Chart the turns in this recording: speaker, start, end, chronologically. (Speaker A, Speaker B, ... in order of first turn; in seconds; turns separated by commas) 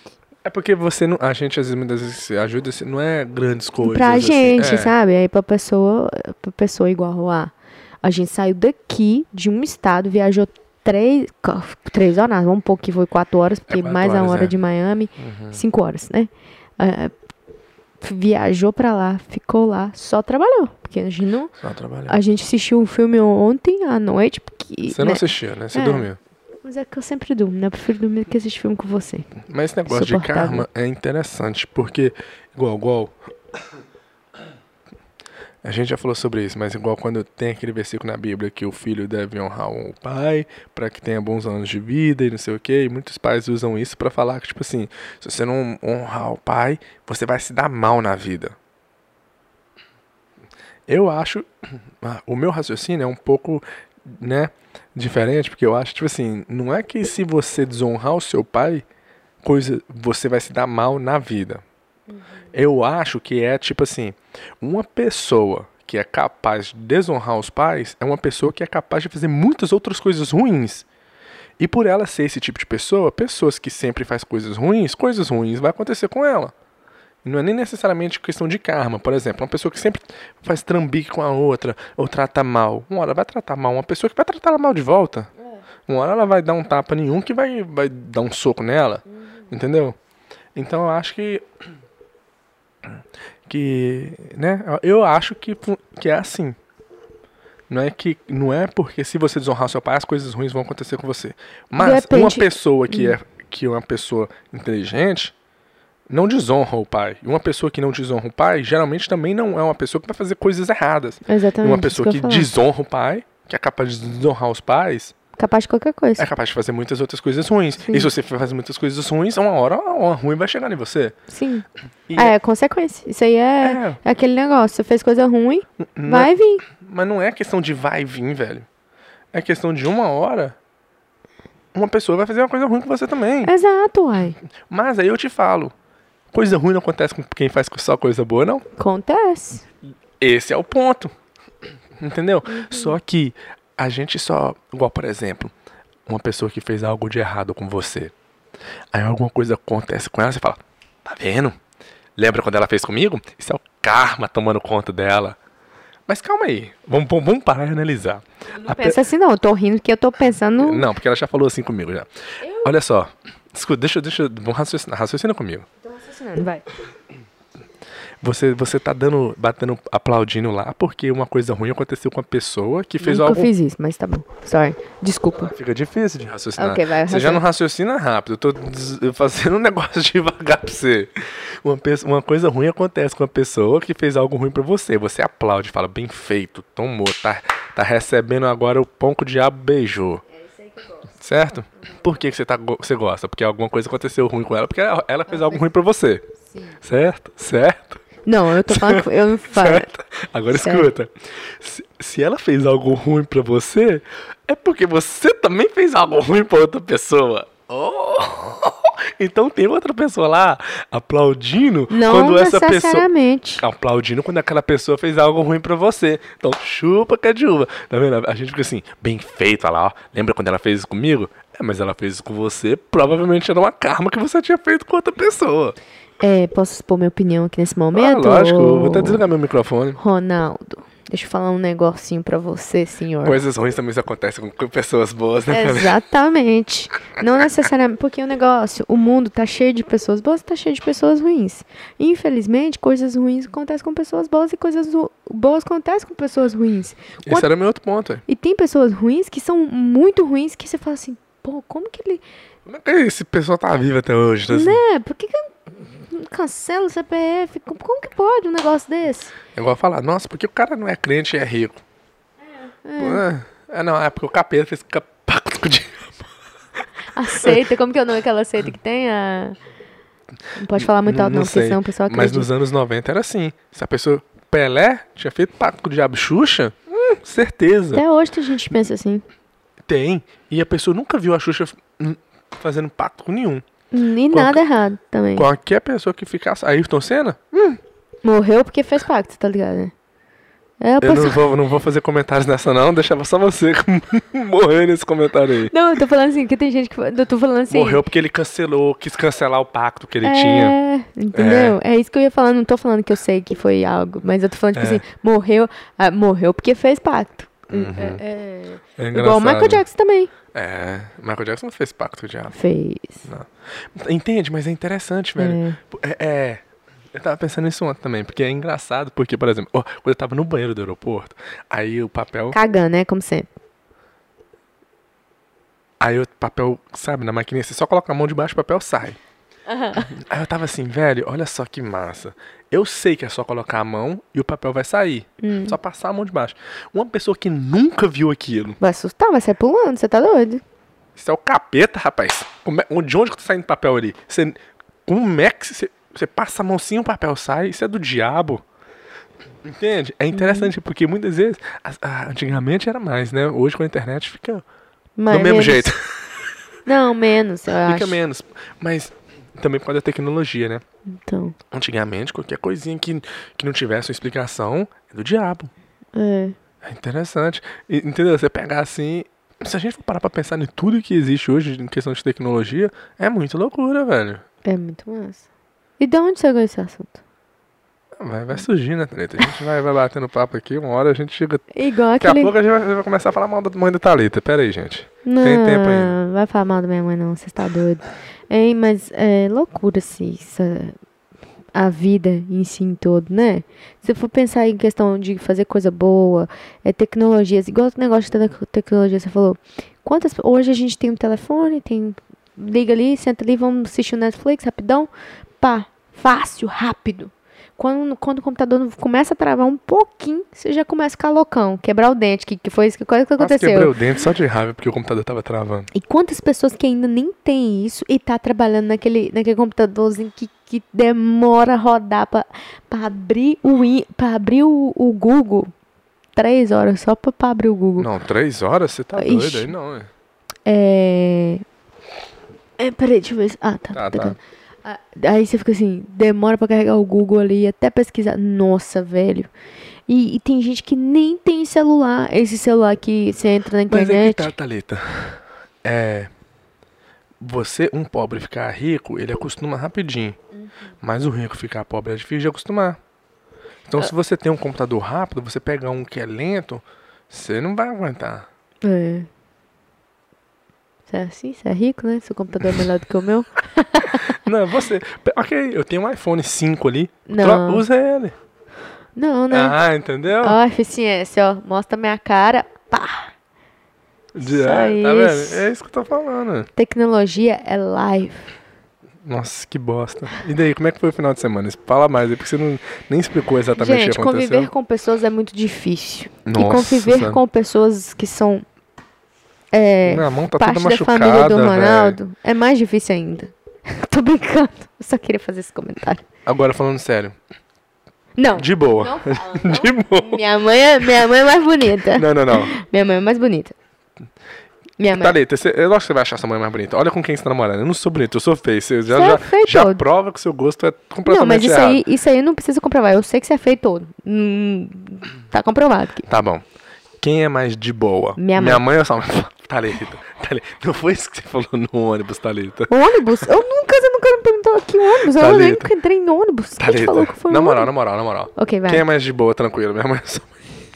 Speaker A: 0.4-4.9, Speaker B: 3.8-17.1, Speaker A: 13.7-14.5, Speaker A: 15.2-15.6, Speaker B: 18.0-21.5, Speaker A: 21.6-22.2, Speaker B: 22.1-26.1, Speaker A: 24.9-26.2, Speaker B: 26.6-29.3, Speaker A: 29.5-33.1, Speaker B: 29.9-30.6, Speaker A: 35.6-48.5, Speaker A: 50.9-51.5, Speaker A: 52.0-58.8, Speaker A: 59.4-61.6, Speaker A: 62.5-70.8, Speaker A: 71.6-76.5, Speaker A: 77.2-85.3, Speaker A: 85.9-90.0, Speaker A: 90.5-91.4, Speaker A: 93.5-96.5, Speaker A: 97.7-105.3, Speaker B: 101.8-103.2, Speaker A: 106.1-115.1, Speaker B: 111.3-112.5, Speaker B: 115.3-116.2, Speaker A: 116.2-121.2, Speaker B: 117.8-118.1, Speaker B: 121.3-121.6, Speaker A: 122.1-122.3, Speaker B: 122.2-126.6, Speaker A: 123.6-124.0, Speaker A: 125.8-128.7, Speaker A: 129.3-130.6, Speaker A: 131.7-133.5, Speaker B: 133.4-134.4, Speaker A: 134.7-135.7, Speaker A: 136.3-138.6, Speaker B: 138.8-139.6, Speaker A: 140.2-141.1, Speaker A: 142.0-145.5, Speaker B: 142.4-143.0, Speaker A: 146.1-148.1, Speaker A: 148.9-151.6, Speaker A: 152.2-155.4, Speaker A: 156.1-159.0, Speaker B: 158.6-160.8, Speaker A: 160.6-165.7, Speaker B: 162.4-162.7, Speaker B: 165.8-166.6, Speaker A: 168.2-173.5, Speaker B: 173.0-175.5, Speaker A: 175.4-190.2, Speaker B: 176.6-177.4, Speaker B: 190.4-191.1, Speaker A: 191.1-198.0, Speaker B: 195.3-195.6, Speaker B: 198.2-199.9, Speaker A: 198.7-213.1, Speaker B: 200.5-200.9, Speaker B: 211.9-213.6, Speaker A: 213.6-225.8, Speaker B: 226.2-229.2, Speaker A: 227.9-230.0, Speaker B: 230.0-233.4, Speaker A: 233.2-236.0, Speaker B: 235.5-247.5, Speaker A: 247.2-248.2, Speaker B: 248.3-252.2, Speaker A: 252.7-254.8, Speaker B: 254.5-259.3, Speaker A: 259.5-261.8, Speaker B: 262.7-263.2, Speaker A: 263.0-266.3, Speaker B: 267.1-269.6, Speaker B: 270.6-272.5, Speaker A: 270.7-278.0, Speaker B: 277.9-279.2, Speaker A: 279.9-283.6, Speaker B: 283.9-285.5, Speaker A: 284.3-284.6, Speaker A: 285.3-287.8, Speaker B: 288.2-289.9, Speaker B: 290.8-291.4, Speaker A: 291.0-295.7, Speaker B: 295.7-298.0, Speaker A: 297.7-300.8, Speaker B: 300.2-310.3, Speaker A: 301.3-301.8, Speaker A: 304.7-305.0, Speaker A: 307.7-308.2, Speaker A: 309.0-309.8, Speaker A: 310.5-312.6, Speaker B: 312.5-313.2, Speaker A: 313.2-316.6, Speaker B: 315.4-315.8, Speaker A: 317.1-322.6, Speaker B: 322.5-323.5, Speaker A: 326.0-329.2, Speaker B: 329.7-330.1, Speaker A: 329.9-338.8, Speaker B: 335.4-335.8, Speaker B: 338.8-340.6, Speaker A: 341.2-348.6, Speaker A: 349.6-354.6, Speaker B: 350.3-350.7, Speaker B: 355.2-355.9, Speaker A: 355.3-356.1, Speaker B: 356.9-358.2, Speaker A: 357.8-360.8, Speaker B: 361.1-361.6, Speaker A: 361.7-365.7, Speaker B: 366.1-366.6, Speaker A: 366.8-374.4, Speaker B: 374.6-375.4, Speaker B: 376.0-377.2, Speaker A: 378.2-381.6, Speaker B: 381.7-382.5, Speaker A: 382.2-386.1, Speaker B: 385.2-390.9, Speaker B: 391.7-413.9, Speaker A: 413.4-415.9, Speaker B: 415.9-425.7, Speaker B: 426.4-428.1, Speaker A: 428.0-430.1, Speaker B: 429.1-429.7, Speaker B: 430.6-431.6, Speaker B: 432.8-439.5, Speaker A: 433.9-434.4, Speaker B: 440.1-444.5, Speaker A: 443.9-446.3, Speaker A: 447.4-450.4, Speaker A: 451.0-453.0, Speaker A: 453.9-458.5, Speaker B: 458.8-459.3, Speaker B: 461.1-464.3, Speaker A: 464.2-468.3, Speaker B: 467.3-467.8, Speaker B: 469.1-469.8, Speaker A: 469.5-470.6, Speaker B: 470.4-473.3, Speaker A: 474.3-476.7, Speaker B: 474.4-475.6, Speaker B: 476.8-478.5, Speaker A: 479.2-484.7, Speaker B: 483.7-488.6, Speaker A: 486.4-487.4, Speaker B: 489.7-496.2, Speaker A: 490.0-492.2, Speaker A: 496.4-497.3, Speaker B: 498.4-503.7, Speaker A: 498.6-500.4, Speaker A: 502.1-502.8, Speaker B: 505.0-505.4, Speaker A: 505.1-512.0, Speaker B: 509.1-510.0, Speaker B: 511.2-516.3, Speaker A: 516.3-516.6, Speaker A: 517.2-522.9, Speaker B: 518.4-518.8, Speaker B: 522.9-527.9, Speaker A: 525.3-525.9, Speaker A: 526.8-530.6, Speaker B: 528.5-529.0